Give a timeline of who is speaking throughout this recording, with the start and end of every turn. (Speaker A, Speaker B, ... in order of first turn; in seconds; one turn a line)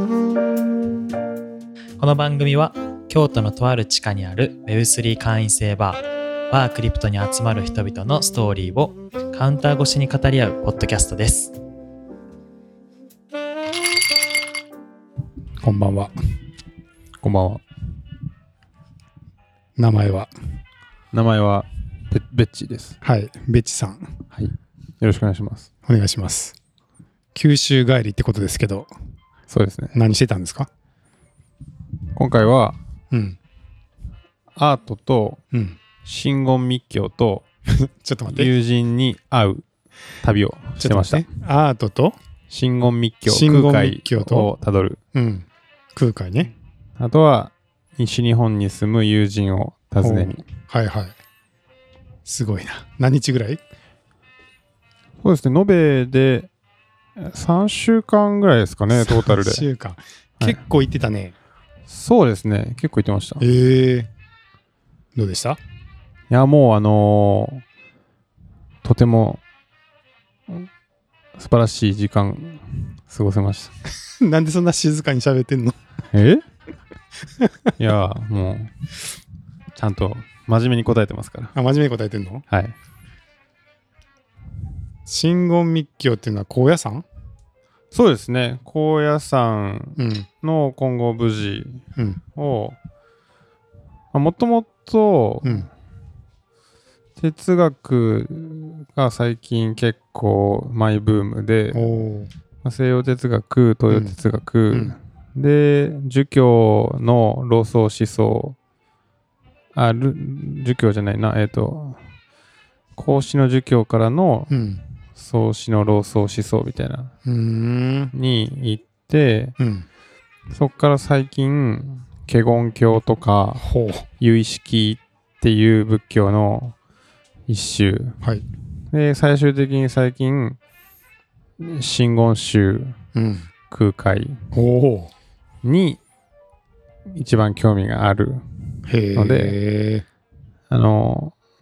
Speaker A: 2.0-11.5
Speaker B: 15.6-16.1
Speaker C: 17.2-17.6
Speaker B: 19.8-20.3
Speaker C: 21.1-23.0
Speaker B: 23.0-24.1
Speaker C: 24.3-25.7
Speaker B: 25.8-26.6
Speaker B: 27.3-28.9
Speaker C: 29.5-29.9
Speaker B: 29.9-30.7
Speaker C: 32.1-32.8
Speaker B: 33.1-33.4
Speaker C: 34.5-35.4
Speaker B: 35.5-35.8
Speaker C: 36.0-37.5
Speaker B: 37.7-38.5
Speaker C: 38.3-39.6
Speaker C: 40.2-41.2
Speaker B: 40.8-42.1
Speaker C: 42.5-45.0
Speaker B: 43.2-44.5
Speaker B: 45.1-46.5
Speaker C: 47.0-50.4
Speaker B: 50.0-51.1
Speaker B: 52.2-53.6
Speaker C: 55.2-56.5
Speaker C: 57.2-59.7
Speaker B: 58.9-61.3
Speaker C: 61.9-63.5
Speaker B: 63.4-64.1
Speaker B: 65.1-65.6
Speaker C: 66.3-67.6
Speaker C: 68.8-69.4
Speaker C: 71.4-73.7
Speaker B: 74.0-75.8
Speaker C: 76.1-76.4
Speaker B: 77.3-77.7
Speaker C: 77.8-78.7
Speaker C: 79.8-81.5
Speaker B: 81.5-82.4
Speaker C: 82.5-82.7
Speaker B: 85.0-87.0
Speaker C: 87.9-91.8
Speaker B: 90.0-90.3
Speaker B: 92.0-92.2
Speaker C: 92.3-92.8
Speaker C: 94.1-95.7
Speaker C: 97.2-101.8
Speaker B: 101.7-102.3
Speaker C: 102.6-108.6
Speaker B: 103.9-104.2
Speaker C: 109.7-112.0
Speaker C: 112.9-114.5
Speaker B: 114.5-114.8
Speaker C: 115.1-117.1
Speaker B: 117.2-118.1
Speaker C: 118.1-119.6
Speaker B: 119.6-119.8
Speaker C: 120.5-123.6
Speaker B: 123.6-124.1
Speaker C: 124.2-126.7
Speaker C: 127.5-128.2
Speaker C: 128.9-130.6
Speaker C: 131.6-133.0
Speaker B: 133.1-133.5
Speaker C: 133.7-134.4
Speaker B: 134.5-135.1
Speaker C: 135.6-136.0
Speaker C: 137.1-138.4
Speaker B: 138.8-140.0
Speaker C: 139.1-139.6
Speaker C: 140.7-141.3